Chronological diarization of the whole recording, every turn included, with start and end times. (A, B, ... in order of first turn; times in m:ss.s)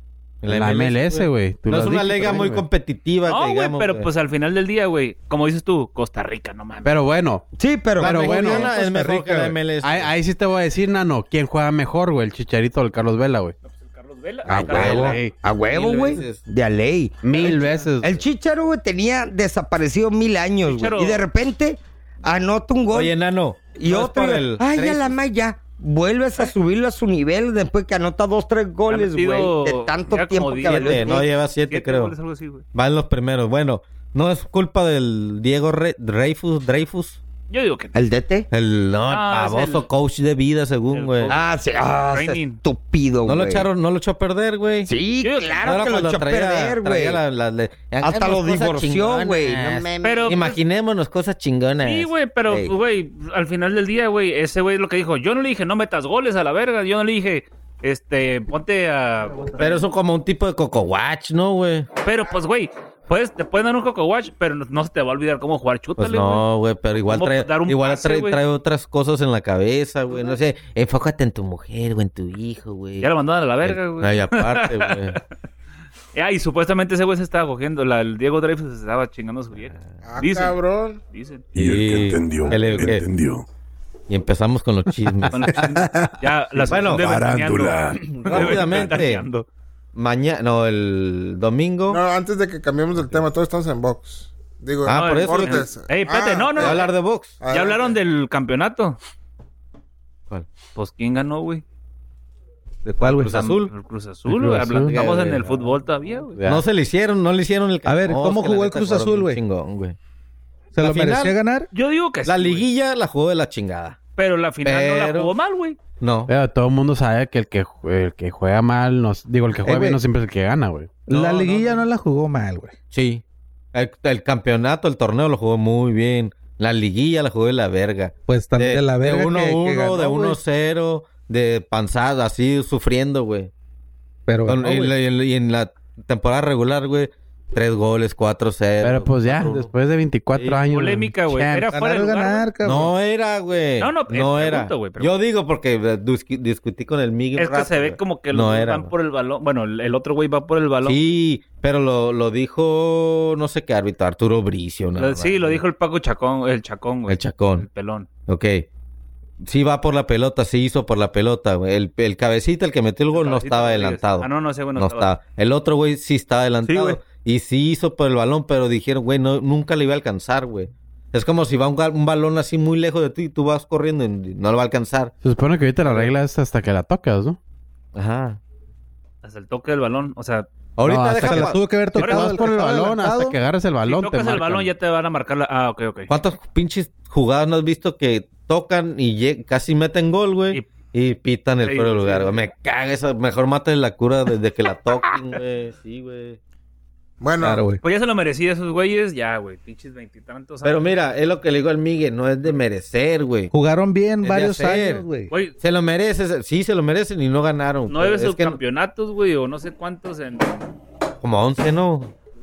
0:00.4-0:04.1 A
0:00.5-0:02.6 B
0:03.2-0:07.0 C
0:06.8-0:07.4 B
0:07.6-0:08.8 D
0:08.0-0:10.1 A
0:08.0-0:08.7 B
0:08.8-0:09.4 E
0:09.8-0:13.5 B
0:13.6-0:15.2 C
0:14.4-0:23.1 D
0:14.6-0:16.4 A
0:15.0-0:15.4 B
0:17.2-0:18.2 B
0:17.4-0:17.9 C
0:20.6-0:21.2 C
0:22.9-0:25.1 A
0:23.8-0:31.2 D
0:28.9-0:32.6 C
0:30.6-0:32.1 A
0:32.7-0:37.2 A
0:37.5-0:37.9 C
0:37.9-0:38.5 D
0:38.5-0:41.4 A
0:39.1-0:39.9 C
0:40.9-0:41.5 C
0:41.3-0:43.7 D
0:42.0-0:42.6 C
0:43.2-0:44.9 A
0:44.9-0:47.2 D
0:45.2-0:45.9 C
0:45.6-0:52.1 A
0:48.0-0:50.4 D
0:50.0-0:50.6 C
0:51.8-0:59.8 C
0:52.5-0:52.7 D
0:59.6-1:01.9 A
1:02.0-1:06.4 C
1:06.0-1:13.1 A
1:07.0-1:08.4 C
1:13.0-1:15.2 C
1:13.6-1:15.2 A
1:16.1-1:21.5 C
1:20.0-1:21.0 F
1:21.6-1:23.1 A
1:21.6-1:23.4 G
1:24.1-1:25.6 A
1:25.3-1:29.4 C
1:26.7-1:27.1 A
1:27.0-1:28.8 G
1:28.1-1:29.3 A
1:29.9-1:32.0 A
1:31.9-1:36.8 F
1:34.8-1:35.7 A
1:34.9-1:36.9 C
1:36.6-1:37.4 A
1:37.4-1:38.0 F
1:37.4-1:39.0 C
1:40.7-1:41.6 C
1:42.8-1:43.4 E
1:43.0-1:43.7 A
1:43.0-1:46.4 C
1:44.3-1:45.0 B
1:44.7-1:45.6 A
1:46.3-1:46.6 B
1:46.4-1:50.0 A
1:47.8-1:49.4 E
1:50.7-1:51.7 E
1:50.8-1:51.3 A
1:51.7-1:52.6 C
1:52.2-1:54.0 A
1:54.2-1:55.8 C
1:54.6-1:55.3 A
1:56.0-1:56.3 A
1:56.3-2:01.0 B
1:59.6-2:00.0 A
2:01.1-2:02.7 E
2:01.1-2:01.8 C
2:02.9-2:03.2 A
2:03.7-2:13.5 A
2:08.3-2:10.4 E
2:09.3-2:09.9 D
2:14.3-2:14.9 E
2:14.4-2:19.7 A
2:18.8-2:21.7 B
2:20.3-2:20.6 A
2:20.6-2:22.5 C
2:21.7-2:22.9 E
2:22.6-2:28.9 A
2:23.8-2:25.1 C
2:27.4-2:31.0 C
2:30.8-2:35.6 A
2:35.0-2:38.1 C
2:37.1-2:37.7 A
2:38.3-2:38.6 A
2:39.4-2:55.1 A
2:43.1-2:45.1 C
2:46.6-2:47.0 C
2:55.2-2:57.4 B
2:55.8-2:56.1 A
2:57.9-2:58.4 A
2:59.2-3:00.5 C
3:00.8-3:01.6 A
3:00.8-3:04.7 B
3:01.2-3:03.3 E
3:02.0-3:02.6 C
3:03.8-3:06.1 C
3:06.1-3:16.4 A
3:11.6-3:12.4 C
3:15.1-3:15.3 C
3:17.2-3:17.6 F
3:17.4-3:17.8 E
3:17.8-3:21.0 C
3:20.6-3:23.5 A
3:23.5-3:25.3 E
3:24.2-3:25.1 A
3:25.3-3:25.6 C
3:25.6-3:28.6 A
3:27.9-3:30.7 C
3:31.2-3:32.1 A